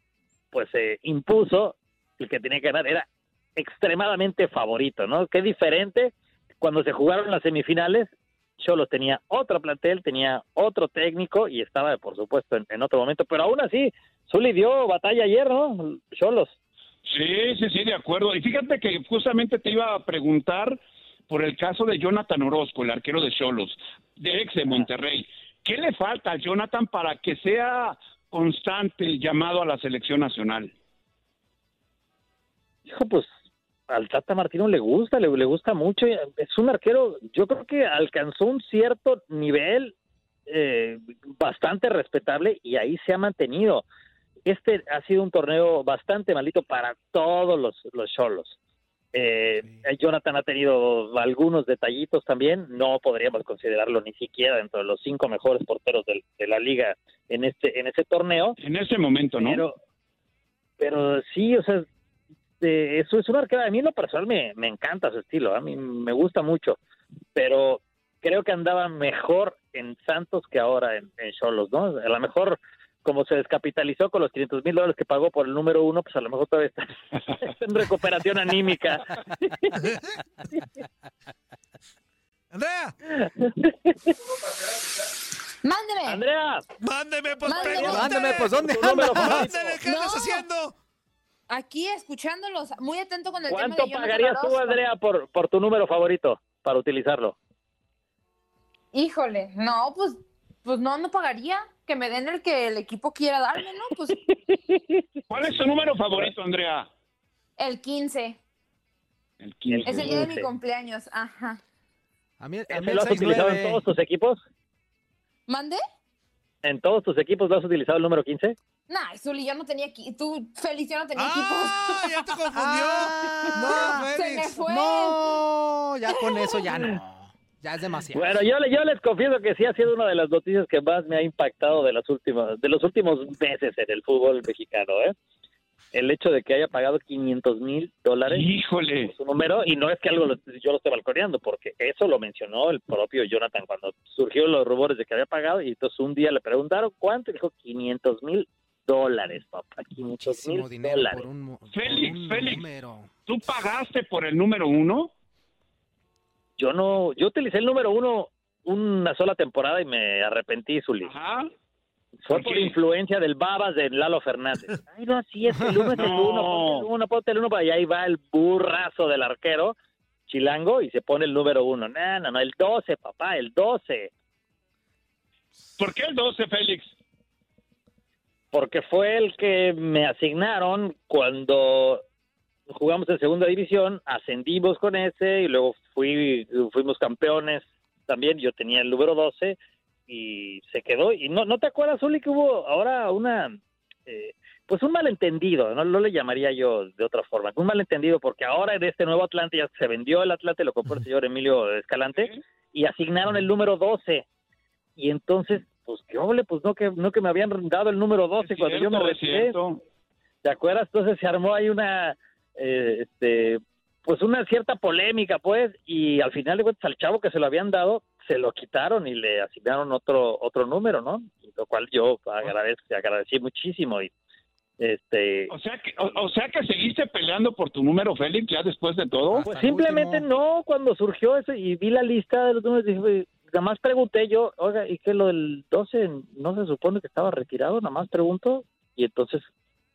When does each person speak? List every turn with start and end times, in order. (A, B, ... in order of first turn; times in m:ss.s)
0:00.5-0:16.5 A
0:17.1-0:30.7 B
0:32.9-0:33.3 A
0:33.9-0:39.9 A
0:40.5-0:43.8 A
0:44.5-0:48.6 A
0:49.1-0:58.6 A
0:58.6-0:59.6 B
0:59.4-0:59.8 A
1:00.8-1:01.9 A
1:02.6-1:06.8 A
1:07.4-1:19.8 A
1:22.5-1:22.9 C
1:23.2-1:24.1 A
1:25.6-1:26.2 D
1:26.1-1:26.6 A
1:26.8-1:30.8 C
1:27.4-1:28.2 D
1:27.6-1:29.8 A
1:27.8-1:29.5 E
1:29.8-1:30.4 D
1:31.5-1:34.8 D
1:33.5-1:37.4 A
1:38.9-1:44.2 D
1:45.3-1:46.9 B
1:47.6-1:48.4 D
1:49.4-1:50.3 B
1:49.7-1:50.5 A
1:49.8-1:51.6 D
1:52.4-1:53.8 E
1:52.7-1:54.4 A
1:55.5-1:55.8 D
1:56.6-1:58.6 A
1:58.9-2:02.6 D
2:01.2-2:04.5 C
2:02.6-2:04.1 E
2:03.5-2:05.4 D
2:04.6-2:08.4 E
2:06.1-2:06.6 D
2:08.1-2:15.1 A
2:15.9-2:18.5 A
2:18.3-2:19.1 B
2:19.0-2:31.3 A
2:30.2-2:33.1 E
2:31.7-2:32.7 B
2:33.3-2:35.1 B
2:36.6-2:41.1 A
2:41.0-2:41.5 B
2:42.2-2:49.8 A
2:42.3-2:42.8 B
2:45.6-2:46.1 E
2:46.0-2:46.9 B
2:50.3-2:54.1 A
2:55.8-2:56.9 B
2:58.5-3:02.0 A
3:02.7-3:09.6 A
3:10.1-3:24.3 A
3:22.1-3:22.4 B
3:25.0-3:29.6 A
3:28.4-3:29.8 B
3:30.4-3:44.1 A
3:44.8-3:45.5 A
3:45.5-3:49.5 B
3:49.3-3:50.3 E
3:49.5-3:59.5 A